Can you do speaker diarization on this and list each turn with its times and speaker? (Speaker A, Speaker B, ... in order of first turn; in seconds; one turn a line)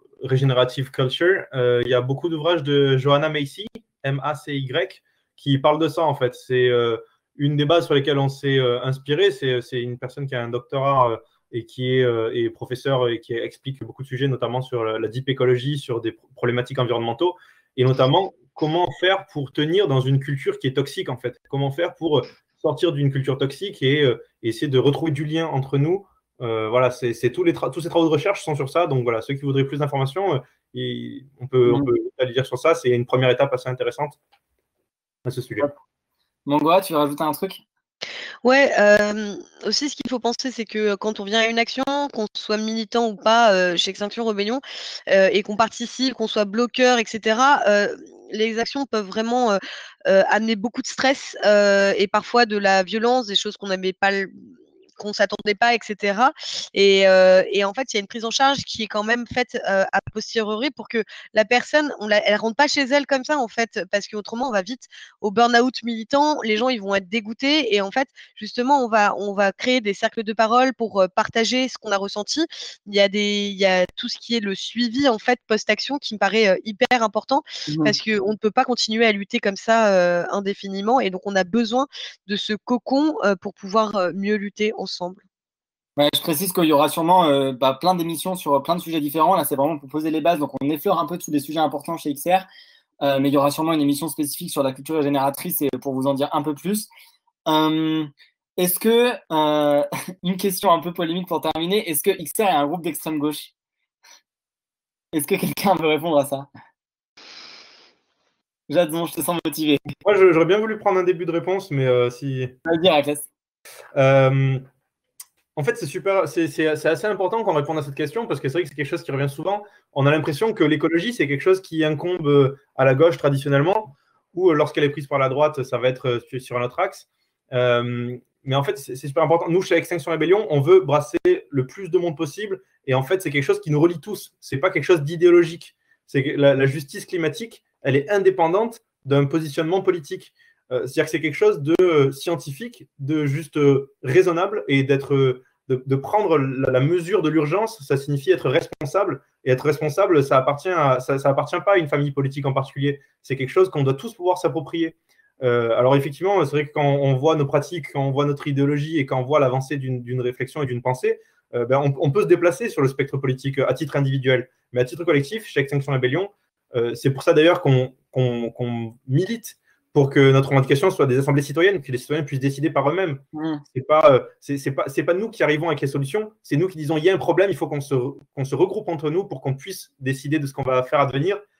Speaker A: 0.2-34.2
Speaker A: 35.2-35.7
Speaker B: 36.5-37.6
Speaker C: 38.4-54.3
Speaker C: 55.0-85.2
Speaker B: 77.7-77.9
Speaker B: 86.0-92.5
Speaker B: 93.0-96.9
Speaker B: 97.5-103.5
Speaker B: 105.1-106.5
Speaker B: 108.7-109.9
Speaker A: 110.0-112.5
Speaker B: 112.7-113.3
Speaker A: 113.9-114.6
Speaker A: 115.5-173.2
Speaker B: 173.3-173.6
Speaker A: 173.7-181.4